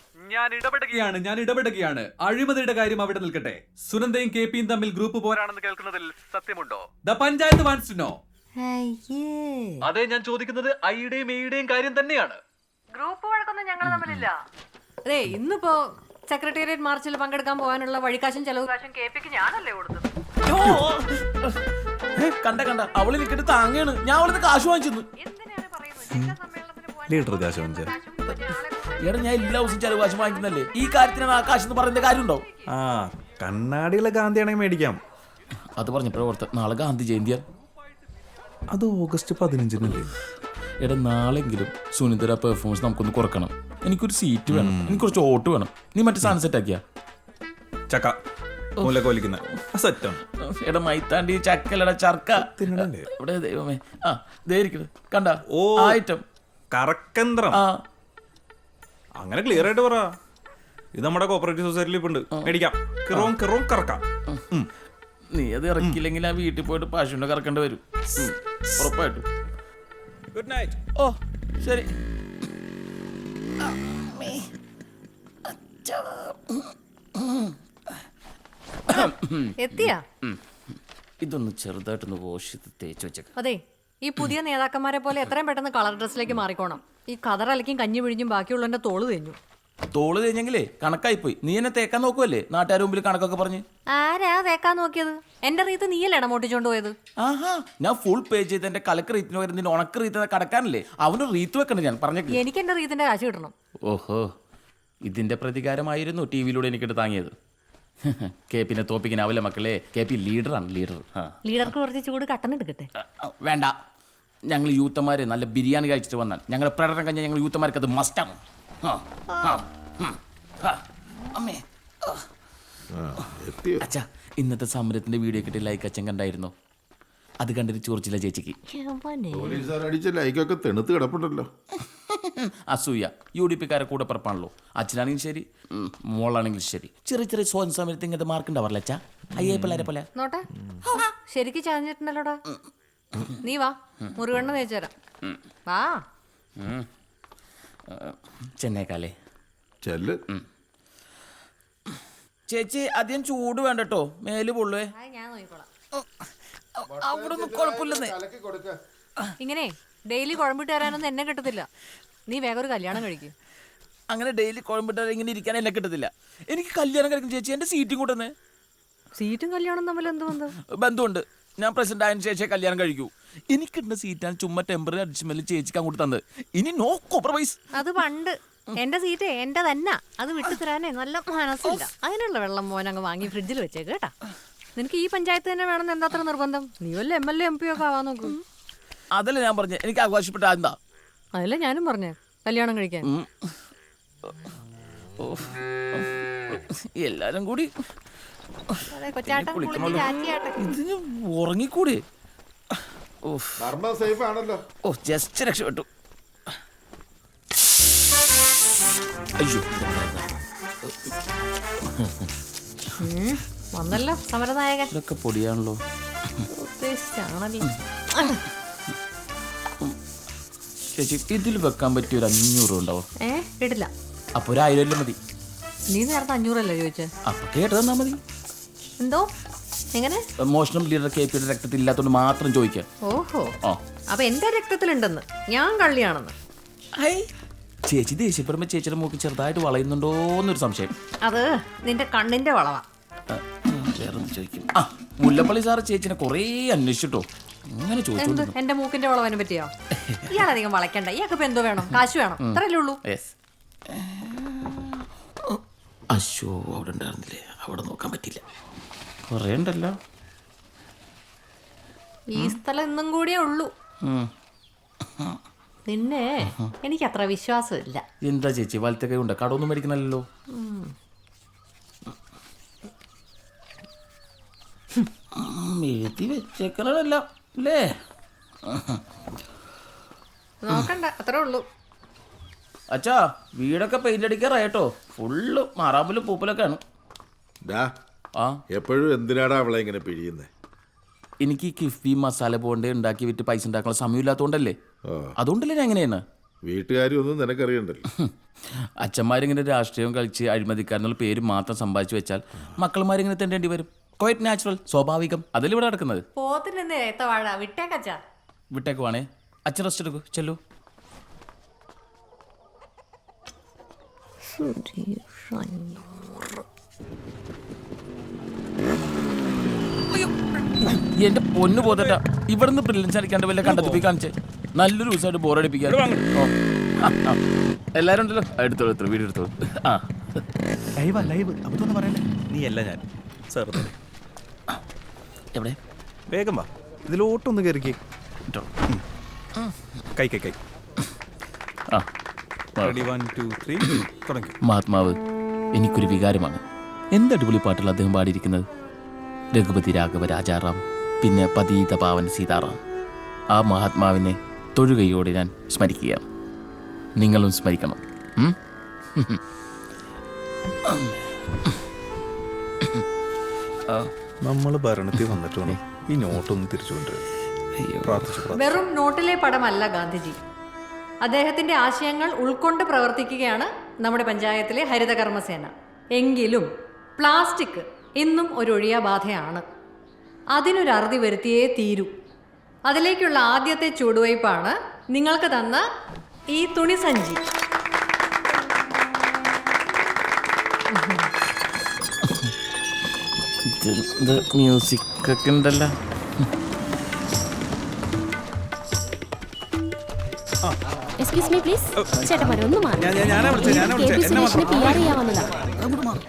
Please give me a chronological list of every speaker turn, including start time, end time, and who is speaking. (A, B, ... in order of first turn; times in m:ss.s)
0:00.2-0:08.2 A
0:08.6-0:09.8 B
0:09.8-0:12.4 A
0:12.9-0:14.4 B
0:13.9-0:14.2 C
0:15.0-0:20.1 B
0:20.4-0:21.6 C
0:22.2-0:25.1 C
0:25.2-0:31.3 B
0:27.1-0:27.9 D
0:29.0-0:32.4 C
0:32.7-0:35.0 D
0:35.8-0:37.4 C
0:38.7-0:40.1 D
0:40.8-0:46.8 C
0:44.5-0:45.0 D
0:47.9-0:48.2 D
0:48.8-0:50.2 D
0:48.8-0:49.1 C
0:50.3-0:56.2 C
0:52.4-0:53.1 D
0:55.5-0:56.0 D
0:56.7-0:57.6 D
0:57.5-0:57.8 C
0:59.2-1:00.1 D
1:01.0-1:04.7 D
1:05.3-1:09.2 C
1:10.3-1:10.8 D
1:11.0-1:11.9 C
1:13.6-1:14.5 C
1:15.4-1:17.6 C
1:18.9-1:20.4 C
1:18.9-1:20.0 B
1:21.2-1:23.3 C
1:23.4-1:29.4 B
1:29.9-1:33.6 C
1:33.9-1:36.9 B
1:37.2-1:42.4 C
1:42.3-1:43.5 B
1:43.8-1:44.3 C
1:45.0-1:47.3 C
1:48.0-1:51.4 C
1:51.4-1:52.9 B
1:53.0-1:53.7 C
1:54.5-2:00.8 C
1:59.3-1:59.6 B
2:01.3-2:02.2 C
2:02.9-2:03.8 E
2:03.8-2:06.5 C
2:07.4-2:08.6 C
2:08.7-2:09.6 B
2:09.3-2:11.5 E
2:11.9-2:20.1 C
2:20.1-2:22.4 B
2:23.4-2:24.9 B
2:25.7-2:26.0 B
2:26.6-2:26.9 C
2:27.9-2:29.1 C
2:29.8-2:30.2 E
2:32.5-2:34.9 C
2:34.9-2:35.7 B
2:36.8-2:38.2 C
2:36.9-2:38.8 E
2:39.4-2:41.7 B
2:42.3-2:43.3 B
2:44.1-2:48.3 C
2:49.2-2:50.6 B
2:50.6-2:57.7 C
2:57.7-3:04.1 B
3:04.8-3:08.4 B
3:09.1-3:10.7 C
3:11.4-3:13.1 B
3:13.0-3:13.5 C
3:15.2-3:17.7 C
3:18.7-3:22.0 C
3:18.9-3:20.7 B
3:23.2-3:23.6 C
3:23.6-3:24.6 E
3:24.8-3:25.9 C
3:29.4-3:31.1 C
3:31.9-3:32.3 C
3:33.0-3:34.9 B
3:34.9-3:35.8 C
3:36.5-3:38.4 B
3:40.9-3:43.1 C
3:43.2-3:43.9 B
3:44.3-3:45.2 C
3:45.9-3:47.1 B
3:47.3-3:48.2 C
3:49.0-3:49.3 B
3:49.9-3:50.2 B
3:50.4-3:52.8 C
3:53.0-3:53.5 B
3:54.1-3:56.3 B
3:56.9-3:57.3 C
3:57.9-4:00.9 C
4:01.2-4:02.8 B
4:03.3-4:08.5 C
4:08.2-4:09.7 B
4:10.0-4:10.3 C
4:10.3-4:13.0 B
4:12.4-4:13.3 C
4:13.9-4:15.6 C
4:16.1-4:18.4 C
4:19.3-4:19.9 C
4:22.3-4:23.7 B
4:24.0-4:24.3 C
4:25.9-4:28.0 B
4:26.4-4:26.7 C
4:28.2-4:30.2 C
4:30.5-4:30.9 B
4:35.3-4:38.0 C
4:38.6-4:39.0 C
4:40.6-4:41.6 B
4:42.9-4:46.8 C
4:47.6-4:47.9 E
4:48.7-4:50.5 E
4:51.4-4:54.7 C
4:55.1-4:55.3 E
4:55.4-4:56.2 C
4:56.7-4:58.0 E
4:58.1-5:06.2 C
5:06.4-5:08.2 B
5:08.7-5:10.6 C
5:14.5-5:16.5 B
5:20.8-5:27.4 C
5:21.8-5:22.2 D
5:23.6-5:24.0 D
5:25.8-5:26.3 D
5:27.9-5:30.4 C
5:31.0-5:33.9 D
5:36.3-5:38.0 D
5:40.2-5:40.6 D
5:42.8-5:43.1 C
5:42.8-5:44.6 D
5:44.6-5:45.2 C
5:45.7-5:46.6 C
5:47.1-5:48.7 C
5:49.5-5:52.8 C
5:53.5-5:56.2 C
5:57.2-5:58.6 C
5:59.1-5:59.4 C
6:00.9-6:01.1 C
6:04.4-6:07.2 D
6:05.1-6:05.8 C
6:07.7-6:08.4 C
6:08.0-6:08.8 D
6:08.5-6:10.4 B
6:11.2-6:19.6 B
6:20.5-6:22.1 B
6:22.9-6:25.8 B
6:26.5-6:27.4 B
6:30.9-6:31.3 B
6:32.2-6:32.5 C
6:33.7-6:36.4 C
6:41.2-6:45.4 F
6:42.0-6:42.3 D
6:43.0-6:45.3 D